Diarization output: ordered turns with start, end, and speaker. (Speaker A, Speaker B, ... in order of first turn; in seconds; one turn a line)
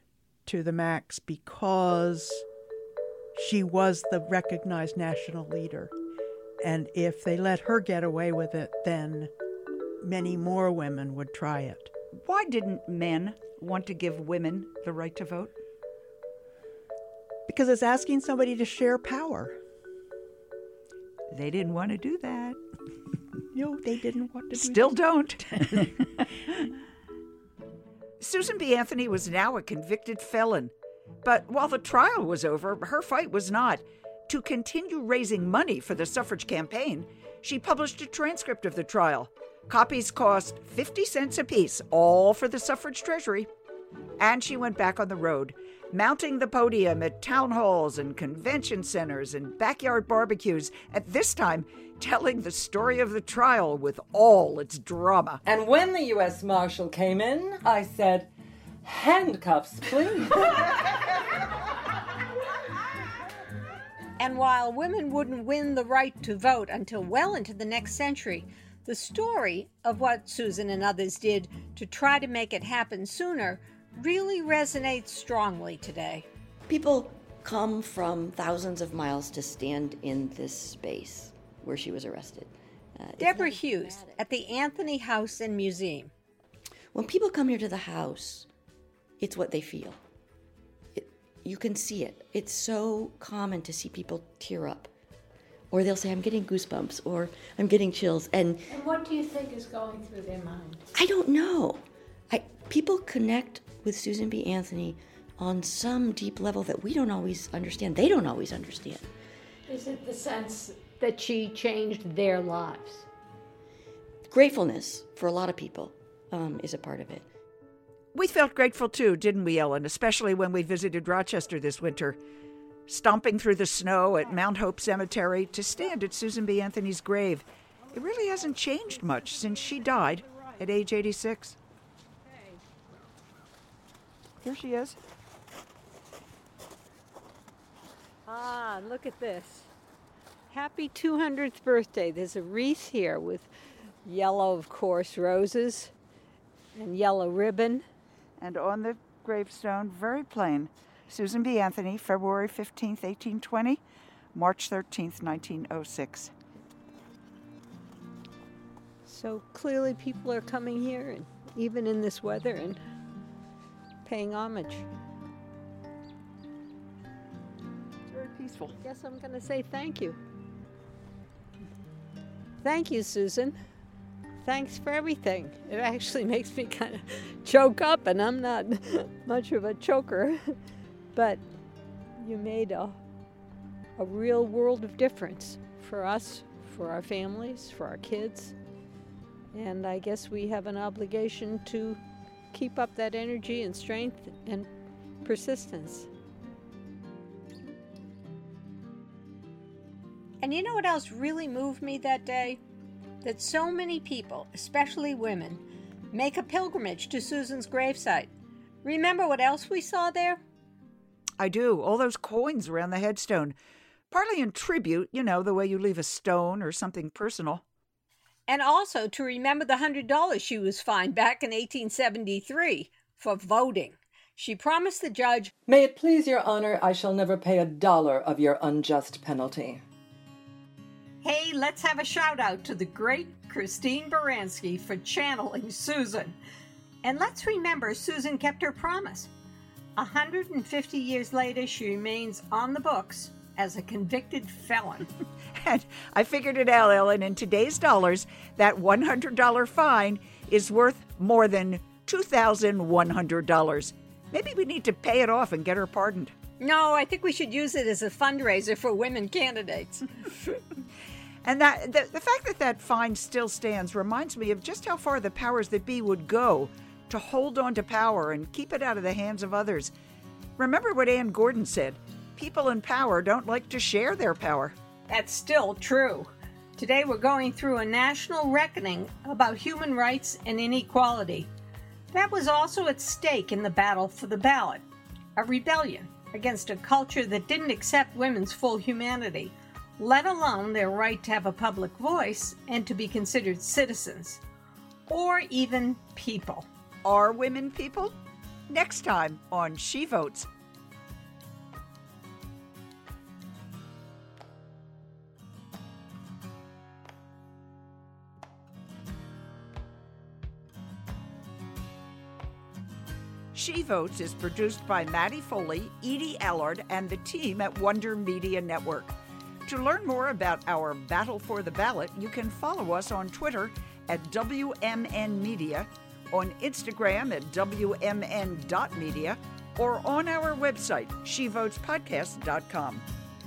Speaker A: 0.5-2.5
Speaker A: 3.4-5.9
Speaker A: 6.6-9.3
Speaker A: 10.0-11.9
Speaker B: 12.2-15.5
Speaker A: 17.5-19.6
Speaker B: 21.3-22.6
Speaker A: 23.5-25.9
Speaker B: 24.5-26.0
Speaker B: 28.2-30.7
Speaker B: 31.2-43.5
Speaker B: 44.2-55.4
Speaker C: 55.5-58.3
Speaker C: 58.8-60.9
Speaker D: 64.2-76.3
Speaker E: 76.7-84.9
Speaker D: 83.2-86.1
Speaker E: 86.9-88.5
Speaker E: 89.2-90.0
Speaker E: 91.0-94.9
Speaker E: 95.7-98.8
Speaker F: 98.9-100.5
Speaker D: 99.7-100.8
Speaker E: 100.9-109.1
Speaker D: 109.8-113.0
Speaker F: 110.5-110.9
Speaker E: 114.3-117.3
Speaker B: 118.1-122.2
Speaker B: 122.9-131.6
Speaker D: 132.3-132.6
Speaker B: 134.4-135.0
Speaker D: 138.3-139.7
Speaker D: 140.5-143.5
Speaker D: 144.1-145.9
Speaker D: 146.8-147.8
Speaker B: 148.4-153.8
Speaker B: 154.3-156.3
Speaker D: 159.1-162.8
Speaker D: 164.1-164.9
Speaker B: 168.1-168.8
Speaker D: 168.8-170.2
Speaker D: 172.6-173.6
Speaker D: 174.4-180.6
Speaker D: 181.2-181.4
Speaker D: 182.2-183.0
Speaker D: 184.0-188.6
Speaker D: 189.5-192.0
Speaker D: 192.5-194.7
Speaker D: 195.2-196.1
Speaker D: 200.4-202.6
Speaker D: 203.2-208.3
Speaker D: 208.8-210.4
Speaker B: 211.4-213.6
Speaker B: 214.1-217.6
Speaker D: 218.5-225.5
Speaker C: 225.7-229.8
Speaker D: 231.2-236.4
Speaker D: 237.0-239.3
Speaker D: 240.0-245.1
Speaker B: 245.6-256.3
Speaker D: 256.6-260.6
Speaker B: 261.4-269.9
Speaker B: 270.6-274.8
Speaker D: 275.1-281.5
Speaker D: 282.1-284.8
Speaker D: 285.4-294.4
Speaker D: 295.1-296.7
Speaker B: 297.1-298.1
Speaker B: 298.7-300.5
Speaker B: 313.5-319.1
Speaker B: 319.7-333.1